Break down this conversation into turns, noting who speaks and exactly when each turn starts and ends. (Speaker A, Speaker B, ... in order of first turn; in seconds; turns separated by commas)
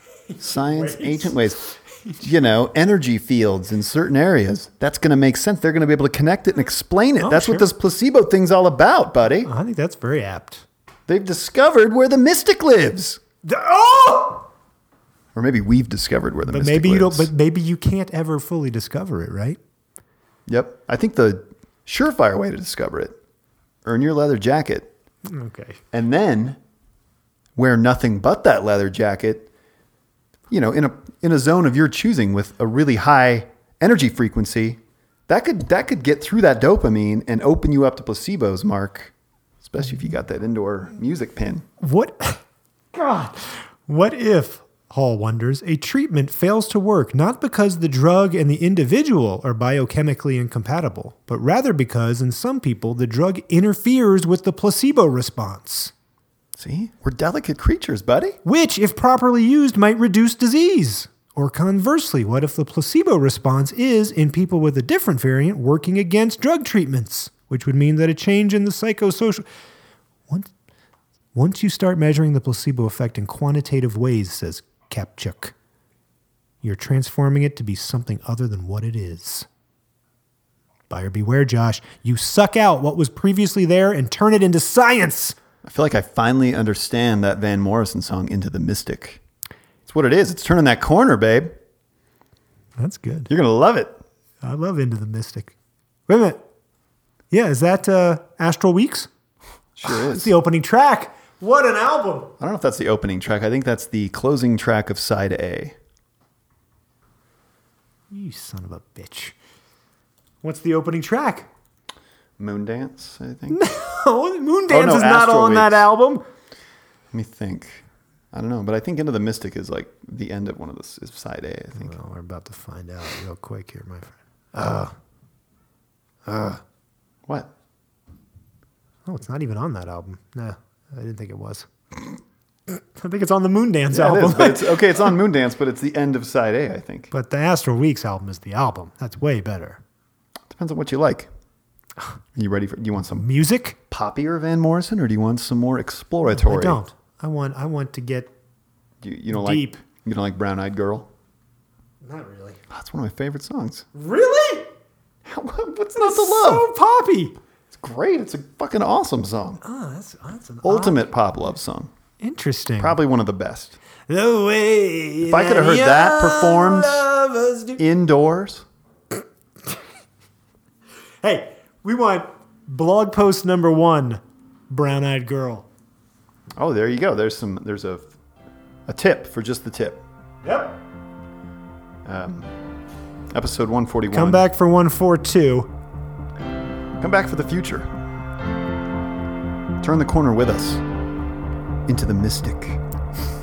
Speaker A: 0.3-2.3, Speaker B: 0.4-1.6, Speaker B: 2.2-9.5, Speaker A: 7.2-7.7, Speaker A: 9.4-10.6, Speaker B: 11.1-13.2, Speaker A: 13.4-14.5, Speaker B: 15.3-17.3, Speaker A: 16.5-19.6, Speaker B: 20.5-23.2, Speaker B: 23.8-24.9, Speaker A: 25.2-25.8, Speaker B: 25.9-26.6, Speaker B: 27.6-29.5, Speaker B: 30.5-41.6, Speaker A: 41.8-42.4, Speaker A: 42.9-55.9, Speaker B: 56.6-58.4, Speaker A: 58.5-69.5, Speaker A: 71.3-75.5, Speaker A: 76.6-79.5, Speaker A: 80.9-85.4, Speaker B: 85.6-89.2, Speaker B: 89.9-91.5, Speaker A: 92.8-93.3, Speaker B: 93.3-94.0, Speaker A: 94.4-95.5, Speaker A: 96.1-96.4, Speaker A: 97.3-99.1, Speaker B: 99.8-100.3, Speaker A: 99.8-102.3, Speaker B: 102.4-105.8, Speaker A: 108.1-109.3, Speaker A: 110.4-111.5, Speaker B: 112.4-113.6, Speaker A: 113.5-116.2, Speaker B: 114.7-115.9, Speaker B: 117.1-122.0, Speaker A: 121.8-124.9, Speaker A: 126.3-126.6, Speaker A: 129.1-131.7, Speaker A: 132.7-135.0, Speaker B: 133.9-137.1, Speaker A: 137.1-139.8, Speaker B: 140.5-141.3, Speaker B: 142.3-143.3, Speaker A: 143.2-143.8, Speaker B: 143.9-146.8, Speaker A: 146.3-148.3, Speaker B: 149.0-151.1, Speaker A: 149.3-149.8, Speaker A: 152.0-152.6, Speaker B: 152.7-153.9, Speaker A: 153.9-154.7, Speaker B: 155.2-156.7, Speaker A: 156.0-157.4, Speaker B: 157.7-159.6, Speaker A: 159.6-161.1, Speaker B: 160.6-161.9, Speaker A: 162.2-163.0, Speaker B: 162.8-163.8, Speaker A: 164.1-167.8, Speaker B: 165.2-167.0, Speaker B: 167.8-168.7, Speaker A: 171.2-175.7, Speaker B: 176.6-178.1, Speaker B: 178.9-180.0, Speaker A: 180.4-180.8, Speaker B: 182.1-182.5, Speaker B: 183.3-184.5, Speaker A: 184.1-185.7, Speaker B: 187.0-187.9, Speaker B: 189.8-190.8, Speaker B: 191.9-192.8